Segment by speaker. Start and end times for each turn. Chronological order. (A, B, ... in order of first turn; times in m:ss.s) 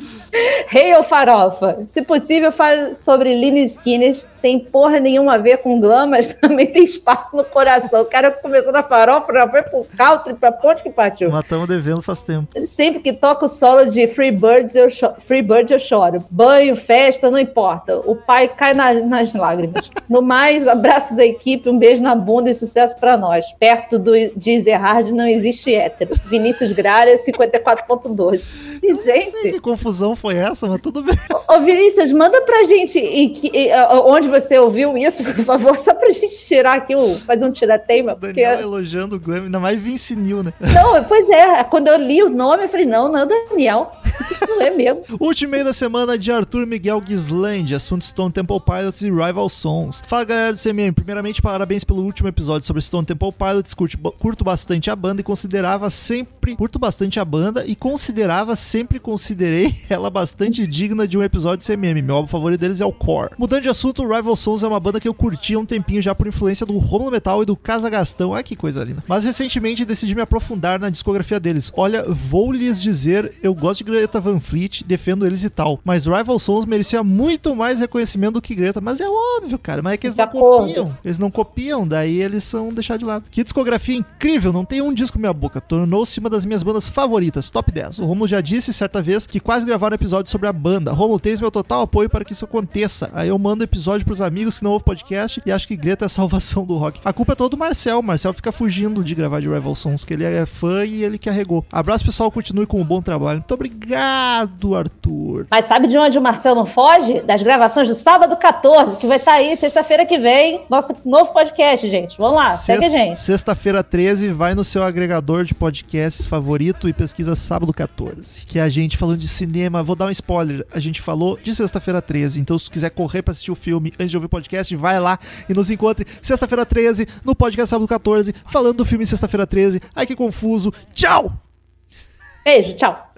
0:00.4-0:11.4 A
0:11.2-0:12.5 B
0:12.6-0:29.6 A
0:28.8-0:31.2 B
0:31.3-0:38.6 A
0:38.1-0:40.8 B
0:40.7-0:45.0 A
0:45.2-1:45.5 B
1:20.1-1:20.8 A
1:45.5-1:53.2 A
1:52.2-2:11.4 B
2:12.4-2:13.0 A